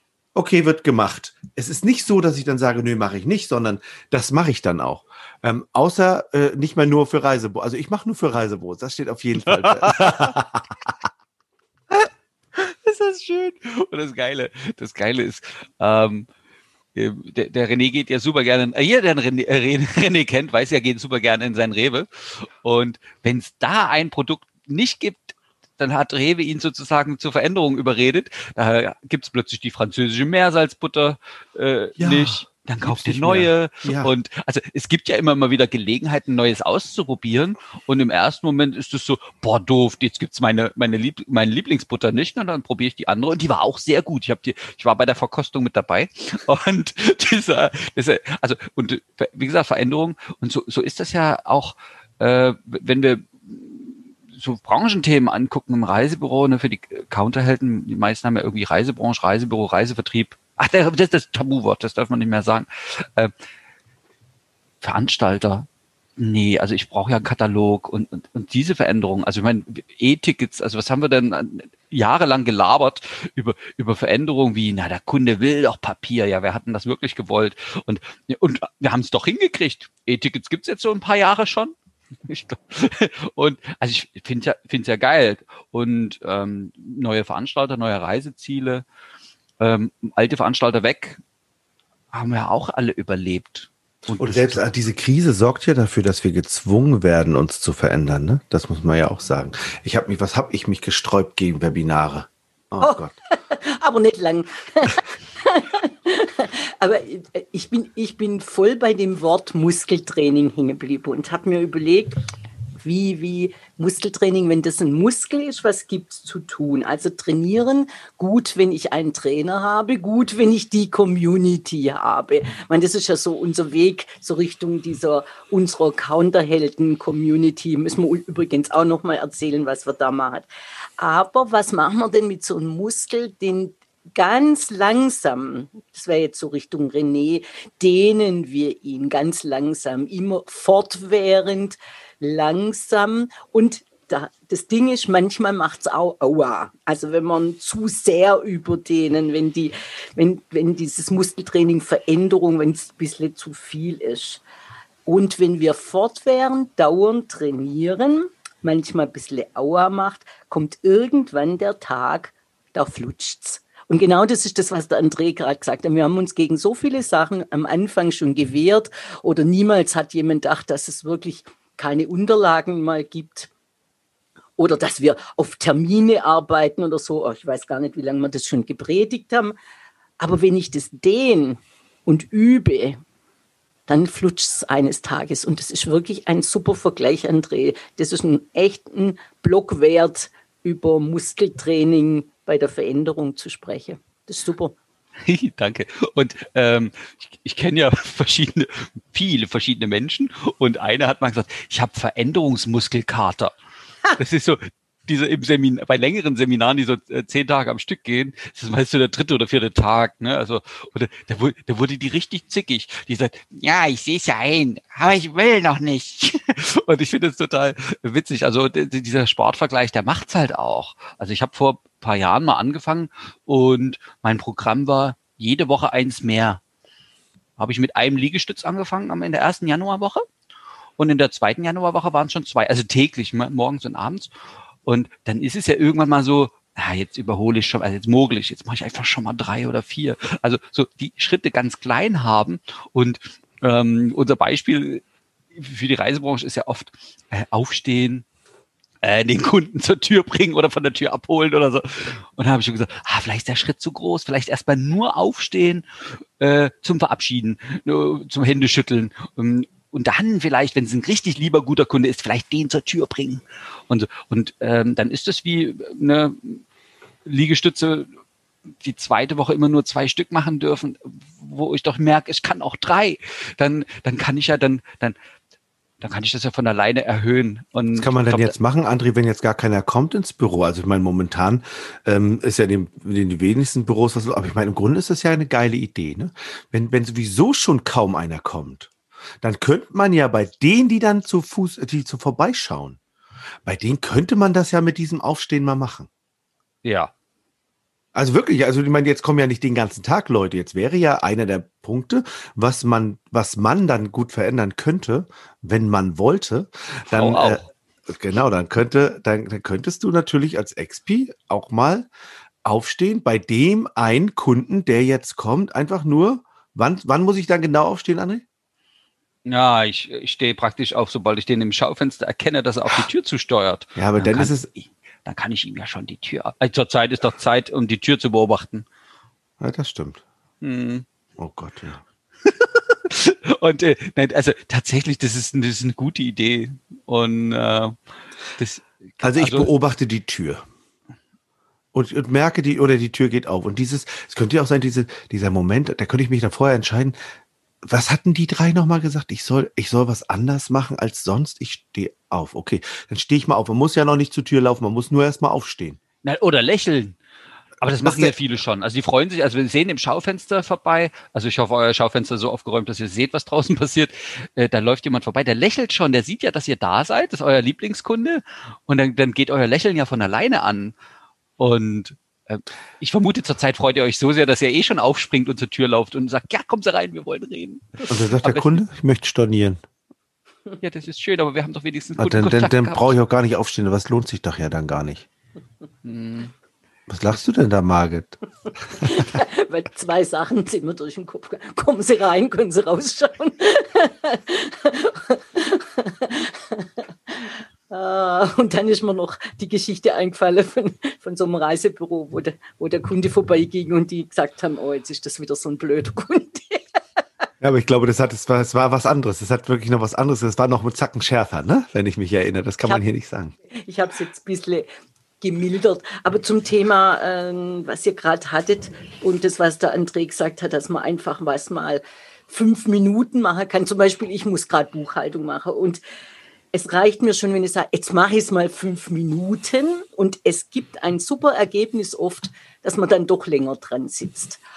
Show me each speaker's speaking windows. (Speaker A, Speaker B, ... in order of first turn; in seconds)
Speaker A: 0.3-10.7, 32.0-34.1, 94.2-103.2, 278.0-293.0, 293.6-296.1, 298.1-312.1, 312.6-318.4, 324.0-324.7, 329.6-330.2, 331.4-332.0, 339.2-340.6, 341.9-347.2, 347.8-356.0, 358.0-358.4, 378.1-379.8, 382.2-385.3, 387.1-388.4, 407.6-413.6
Speaker B: 9.5-10.4, 12.6-16.3, 16.9-63.3, 64.8-65.7, 66.2-88.8, 89.6-91.2, 92.1-94.6, 195.2-203.5, 204.2-226.6, 227.6-230.2, 231.0-234.3, 234.9-245.0, 245.6-248.2, 249.0-255.8, 256.4-266.6, 267.2-268.1, 268.8-275.2, 276.0-278.5, 296.8-297.1, 307.1-307.6, 319.5-324.7, 325.2-328.9, 330.6-331.1, 332.4-338.0, 338.5-339.7, 356.2-357.2, 357.8-370.9, 371.6-378.8, 380.8-383.1, 386.0-386.5
Speaker C: 102.8-112.2, 112.8-130.5, 131.0-154.4, 155.1-173.5, 174.6-179.5, 180.2-183.0, 183.9-194.8, 389.1-407.0, 413.7-414.9, 415.4-426.0, 426.7-434.6